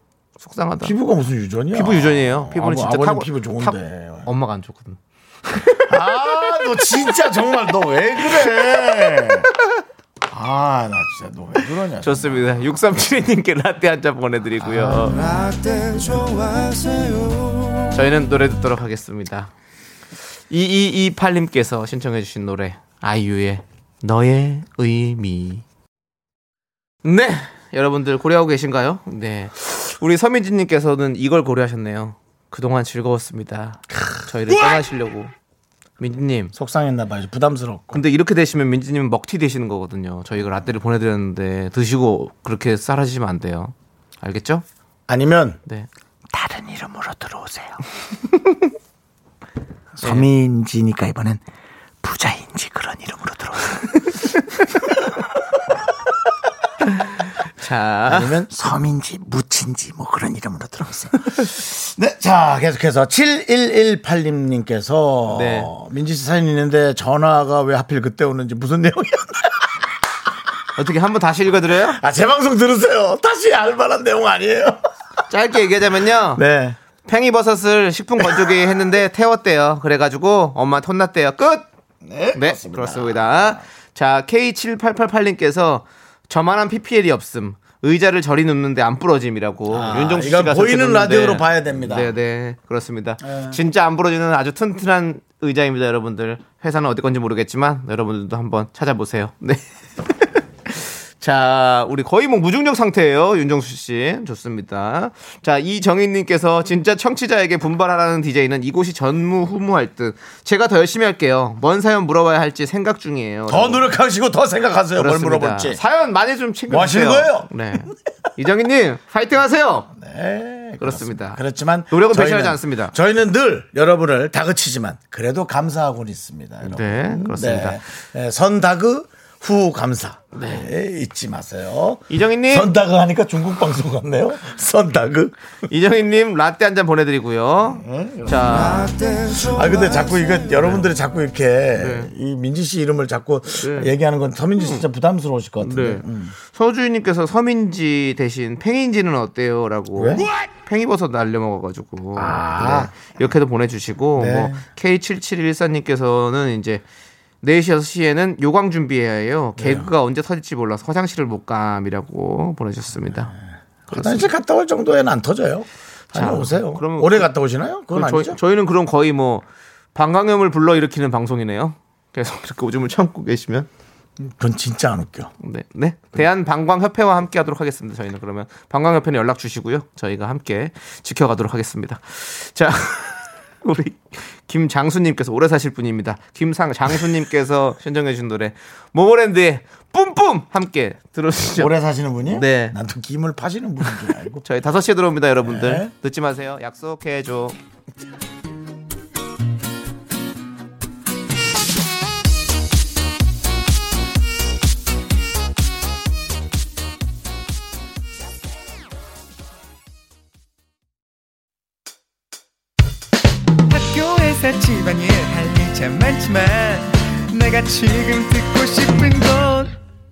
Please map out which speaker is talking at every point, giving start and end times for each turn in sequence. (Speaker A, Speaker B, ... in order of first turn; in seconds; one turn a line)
Speaker A: 0.4-0.9
Speaker B: 0.8-4.3
Speaker A: 1.7-6.8
Speaker B: 5.9-9.5
Speaker A: 8.4-8.7
Speaker B: 10.3-12.4
Speaker A: 12.0-15.3
Speaker B: 14.6-17.0
Speaker A: 17.9-19.5
Speaker A: 20.5-25.6
Speaker A: 27.0-35.3
Speaker A: 36.0-36.5
Speaker B: 36.5-38.0
Speaker A: 37.9-44.6
Speaker B: 45.1-45.6
Speaker B: 46.3-47.8
Speaker B: 49.9-51.4
Speaker A: 50.0-50.3
Speaker B: 52.0-53.9
Speaker B: 54.9-55.2
Speaker A: 57.0-58.4
Speaker B: 58.1-69.8
Speaker A: 65.3-65.7
Speaker A: 70.7-72.0
Speaker B: 71.9-74.8
Speaker A: 75.3-76.4
Speaker B: 76.3-76.8
Speaker A: 77.0-81.7
Speaker B: 78.2-78.5
Speaker B: 82.0-83.6
Speaker A: 82.3-113.9
Speaker B: 89.7-92.1
Speaker B: 93.3-93.6
Speaker B: 113.5-115.8
Speaker A: 115.0-119.9
Speaker B: 116.7-117.5
Speaker B: 119.9-135.3
Speaker A: 120.8-121.4
Speaker A: 121.9-122.9
Speaker A: 126.6-127.8
Speaker A: 130.3-130.7
Speaker A: 132.1-132.7
Speaker A: 135.7-138.9
Speaker B: 137.8-146.3
Speaker A: 141.8-142.1
Speaker A: 143.6-143.9
Speaker A: 145.6-156.8
Speaker B: 149.9-150.2
Speaker B: 152.2-153.0
Speaker B: 154.2-154.6
Speaker A: 157.4-163.3
Speaker B: 159.6-159.9
Speaker B: 163.9-168.4
Speaker A: 163.9-164.3
Speaker A: 166.1-167.3
Speaker A: 167.9-173.7
Speaker B: 174.2-175.3
Speaker A: 175.4-191.7
Speaker B: 191.6-194.4
Speaker A: 192.3-192.7
Speaker A: 194.4-197.6
Speaker B: 195.4-195.9
Speaker C: 213.7-219.8